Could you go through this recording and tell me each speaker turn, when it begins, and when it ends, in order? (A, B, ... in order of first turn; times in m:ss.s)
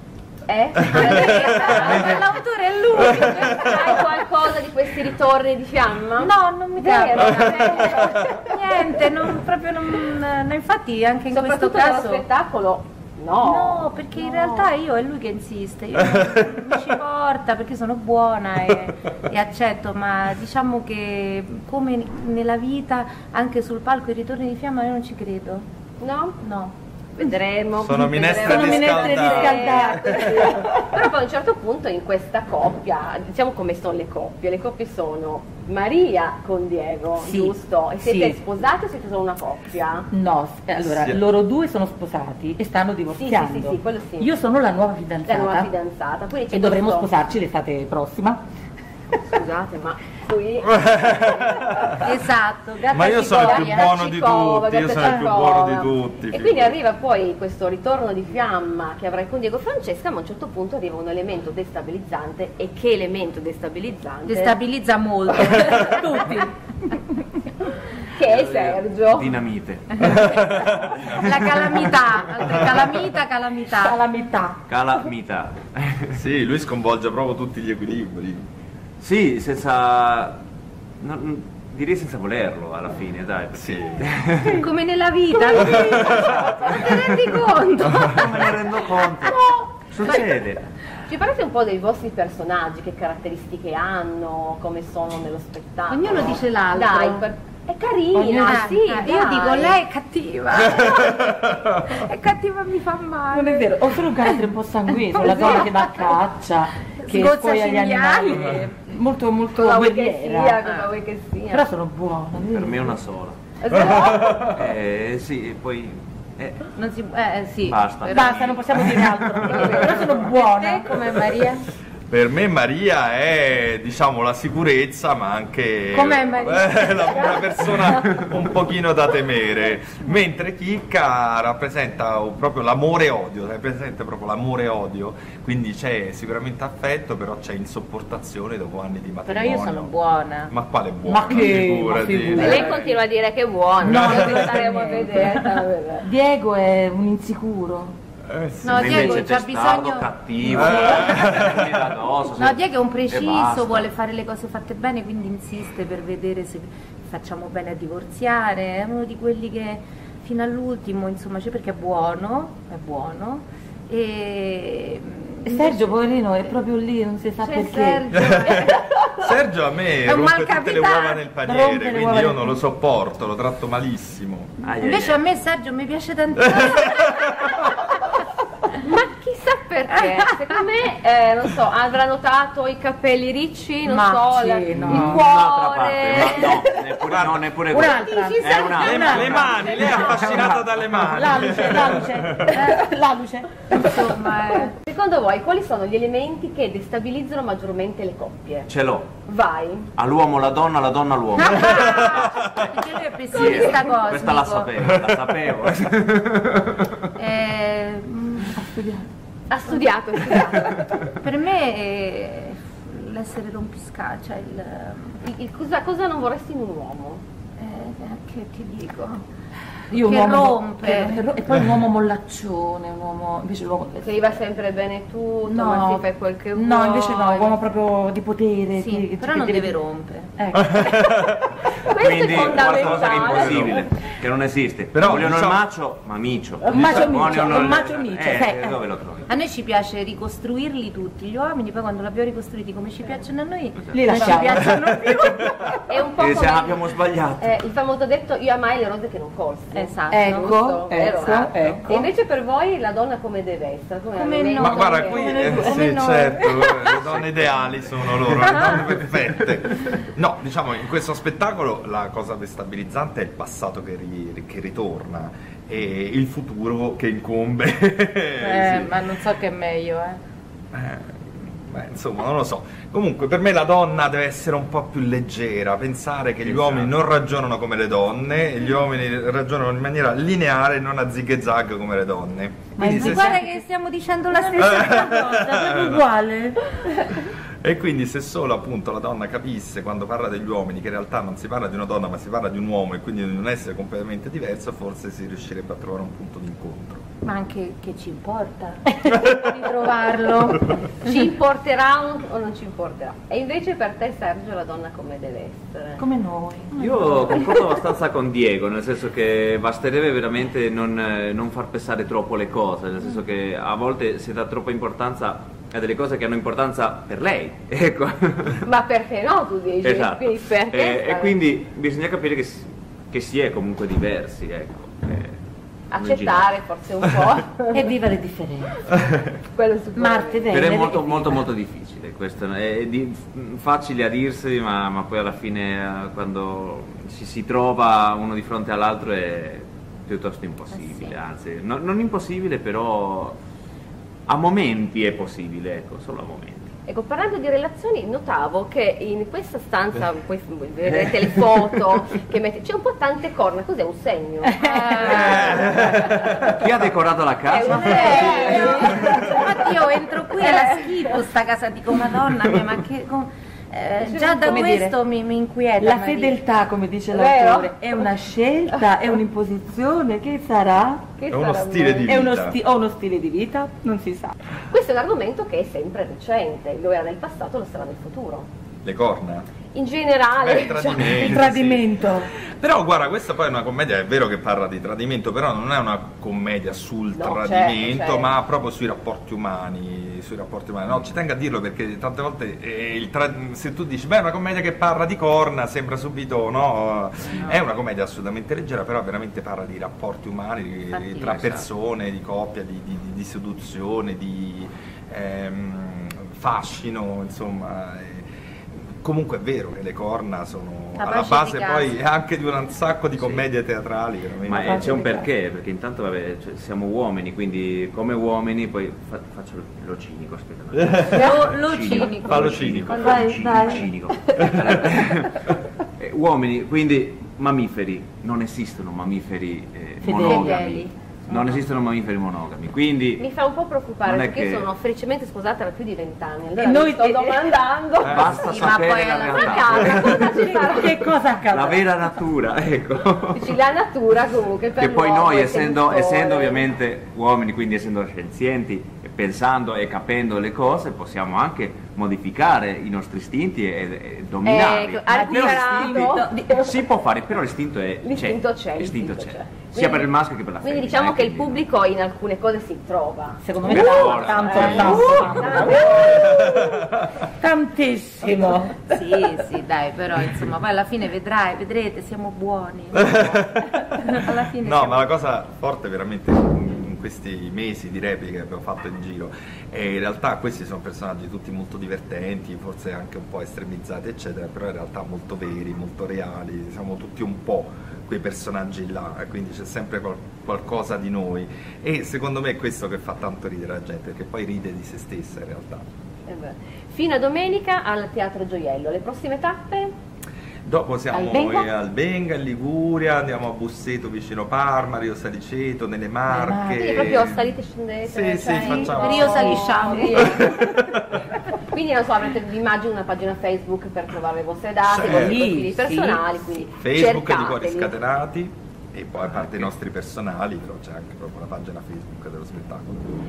0:00.5-0:02.2 A
0:00.8-0:04.2 B
0:03.0-0:08.4 A
0:06.2-0:12.2 B
0:11.3-0:13.9 A
0:13.4-0:25.6 B
0:16.0-0:16.7 C
0:26.0-0:26.4 A
0:26.4-0:26.7 B
0:27.2-0:40.1 A
0:27.8-0:30.5 C
0:28.4-0:30.9 D
0:37.2-0:37.6 B
0:38.1-0:38.3 B
0:40.1-0:45.7 D
0:40.8-0:41.2 C
0:43.1-0:44.3 A
0:45.2-0:47.1 A
0:46.5-0:48.4 D
0:49.3-0:52.1 A
0:50.8-0:51.9 C
0:52.0-0:53.9 B
0:52.9-0:56.7 C
0:53.1-1:04.6 A
1:04.3-1:06.1 B
1:05.8-1:07.3 D
1:07.8-1:09.4 A
1:08.2-1:11.2 E
1:10.0-1:11.5 C
1:11.1-1:14.0 B
1:13.7-1:14.6 D
1:14.7-1:16.2 E
1:16.1-1:18.5 C
1:19.0-1:20.4 E
1:21.0-1:24.6 E
1:23.5-1:24.1 C
1:24.4-1:28.5 B
1:25.5-1:26.6 A
1:25.6-1:26.0 C
1:28.0-1:29.4 E
1:29.2-1:29.6 B
1:29.9-1:30.7 E
1:31.1-1:39.8 A
1:35.9-1:37.3 B
1:38.1-1:38.6 D
1:38.3-1:46.2 B
1:40.9-1:41.7 C
1:43.3-1:50.6 D
1:46.9-1:48.7 B
1:49.5-1:51.7 A
1:50.6-1:50.9 B
1:51.5-1:53.0 D
1:52.5-1:56.7 E
1:53.6-1:54.6 A
1:53.8-1:54.4 C
1:56.7-1:58.6 B
1:57.7-1:59.9 E
1:58.1-2:01.4 D
1:59.4-2:00.3 A
2:00.2-2:01.7 B
2:02.1-2:19.9 C
2:05.9-2:07.7 B
2:19.2-2:20.5 B
2:20.5-2:22.8 C
2:21.0-2:22.8 D
2:22.4-2:26.1 A
2:23.8-2:25.5 D
2:23.9-2:24.5 C
2:26.0-2:28.0 D
2:28.3-2:29.1 C
2:28.6-2:31.3 B
2:28.7-2:33.9 E
2:30.5-2:31.8 C
2:30.6-2:31.0 D
2:32.4-2:46.0 B
2:45.4-2:48.2 D
2:47.4-2:49.0 B
2:48.1-2:54.5 C
2:50.0-2:51.4 B
2:51.4-2:52.6 D
2:54.6-2:55.2 E
2:54.8-2:57.8 B
2:56.5-2:57.5 C
2:58.8-3:06.7 A
3:00.1-3:00.6 B
3:03.8-3:05.2 D
3:04.7-3:10.7 E
3:05.0-3:05.2 B
3:07.0-3:07.5 C
3:07.7-3:14.2 D
3:07.8-3:10.2 A
3:08.8-3:12.6 C
3:12.6-3:12.8 B
3:13.7-3:14.7 B
3:14.2-3:18.7 A
3:18.7-3:19.1 E
3:19.2-3:19.9 A
3:19.9-3:21.8 E
3:21.4-3:24.7 B
3:21.6-3:22.7 C
3:23.3-3:27.0 E
3:23.4-3:23.8 A
3:25.0-3:25.3 C
3:27.2-3:28.6 B
3:28.5-3:29.1 D
3:29.5-3:31.1 A
3:31.2-3:35.2 B
3:35.2-3:37.2 A
3:37.6-3:39.2 B
3:39.9-3:44.3 D
3:39.9-3:41.2 B
3:44.0-3:47.5 A
3:45.5-3:49.8 D
3:48.7-3:50.3 B
3:50.4-3:50.9 D
3:50.7-3:51.4 C
3:51.8-3:53.9 A
3:52.0-3:59.3 E
3:52.6-3:53.8 D
3:53.1-3:53.7 C
3:54.9-3:55.6 C
3:56.7-3:58.8 D
3:59.3-4:05.4 B
4:03.8-4:04.3 E
4:03.9-4:05.5 D
4:04.6-4:05.5 C
4:05.8-4:06.9 A
4:06.2-4:07.6 E
4:07.4-4:15.7 A
4:09.7-4:10.5 B
4:10.1-4:12.0 D
4:14.1-4:17.1 B
4:14.6-4:29.2 C
4:17.3-4:17.8 E
4:18.4-4:18.8 B
4:28.4-4:30.2 B
4:30.7-4:43.4 C
4:36.4-4:36.9 E
4:42.8-4:43.6 D
4:42.9-4:45.4 B
4:44.4-4:47.1 D
4:44.5-4:46.1 C
4:47.4-4:57.0 C
4:57.2-5:01.3 B
4:59.0-4:59.3 D
5:01.0-5:06.0 A
5:06.0-5:07.5 B
5:06.8-5:18.6 E
5:18.6-5:21.3 A
5:19.8-5:25.4 E
5:25.9-5:27.9 A
5:25.9-5:26.4 E
5:27.7-5:28.8 D
5:29.5-5:30.6 A
5:30.0-5:31.4 D
5:30.5-5:43.4 E
5:40.7-5:41.2 B
5:44.3-5:46.7 E
5:46.9-5:56.5 A
5:50.8-5:51.8 E
5:54.6-5:55.7 B
5:54.6-5:55.8 D
5:55.2-5:56.6 C
5:56.4-5:58.9 E
5:57.4-5:59.8 A
5:57.7-6:06.4 B
5:57.9-5:59.4 D
6:00.3-6:01.2 A
6:04.0-6:04.8 A
6:04.4-6:04.9 D
6:05.8-6:11.0 D
6:07.1-6:08.0 A
6:11.2-6:12.2 A
6:11.3-6:12.6 C
6:12.1-6:14.3 D
6:14.7-6:18.5 A
6:18.8-6:19.5 C
6:19.7-6:21.4 A
6:20.3-6:55.0 C
6:21.1-6:22.3 D
6:27.1-6:28.3 A
6:40.9-6:41.3 B
6:41.2-6:41.7 E
6:51.0-6:52.0 B
6:53.1-6:53.5 E
6:54.4-7:13.3 E
6:54.6-6:55.3 D
7:00.8-7:01.4 C
7:01.1-7:03.8 B
7:02.0-7:03.2 C
7:03.0-7:04.6 D
7:10.0-7:10.6 D
7:10.2-7:11.5 B
7:13.2-7:21.1 A
7:14.0-7:14.6 E
7:16.6-7:17.5 D
7:18.0-7:18.6 C
7:18.0-7:20.4 E
7:18.5-7:20.0 B
7:20.0-7:21.9 D
7:21.5-7:23.6 E
7:23.3-7:26.7 A
7:24.8-7:41.7 E
7:34.4-7:36.7 A
7:35.1-7:36.6 D
7:38.0-7:40.1 A
7:40.6-7:46.8 A
7:43.4-7:49.4 D
7:43.6-7:45.8 E
7:46.1-7:47.0 C
7:48.8-7:55.1 B
7:52.9-8:15.8 C
8:16.2-8:19.9 A
8:20.6-8:27.5 C
8:21.1-8:21.7 D
8:26.3-8:27.1 D
8:26.7-8:30.7 A
8:28.0-8:31.3 C
8:28.6-8:29.0 D
8:28.9-8:30.4 B
8:31.6-8:38.0 A
8:34.8-8:35.4 C
8:35.0-8:36.2 D
8:36.8-8:43.1 C
8:39.3-8:39.7 E